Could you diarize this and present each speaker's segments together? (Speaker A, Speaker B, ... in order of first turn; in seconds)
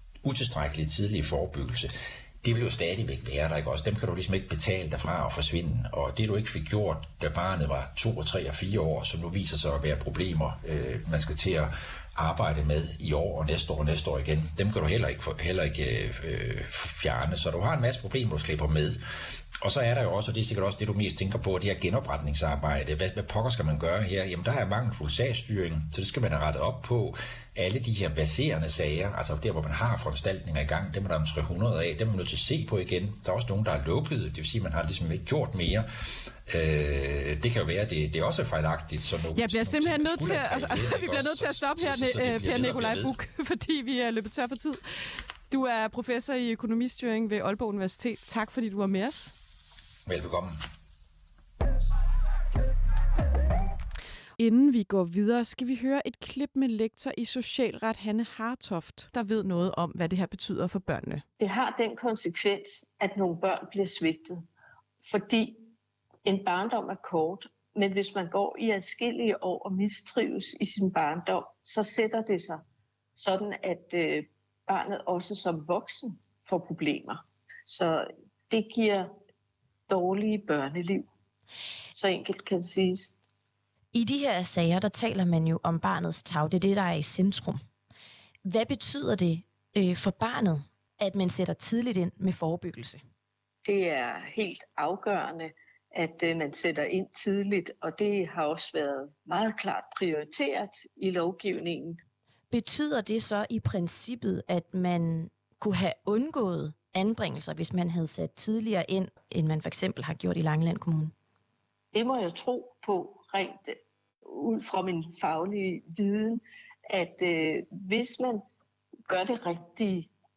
Speaker A: 0.2-43.1, 50.0-50.6
Speaker B: 39.4-49.3, 54.4-61.2
Speaker C: 61.4-64.4, 65.0-65.6, 66.2-72.6, 73.2-79.1, 79.9-81.1, 81.9-83.1, 93.6-102.0, 111.9-118.4, 119.1-120.1
Speaker D: 83.9-87.6, 88.4-93.0, 102.5-111.1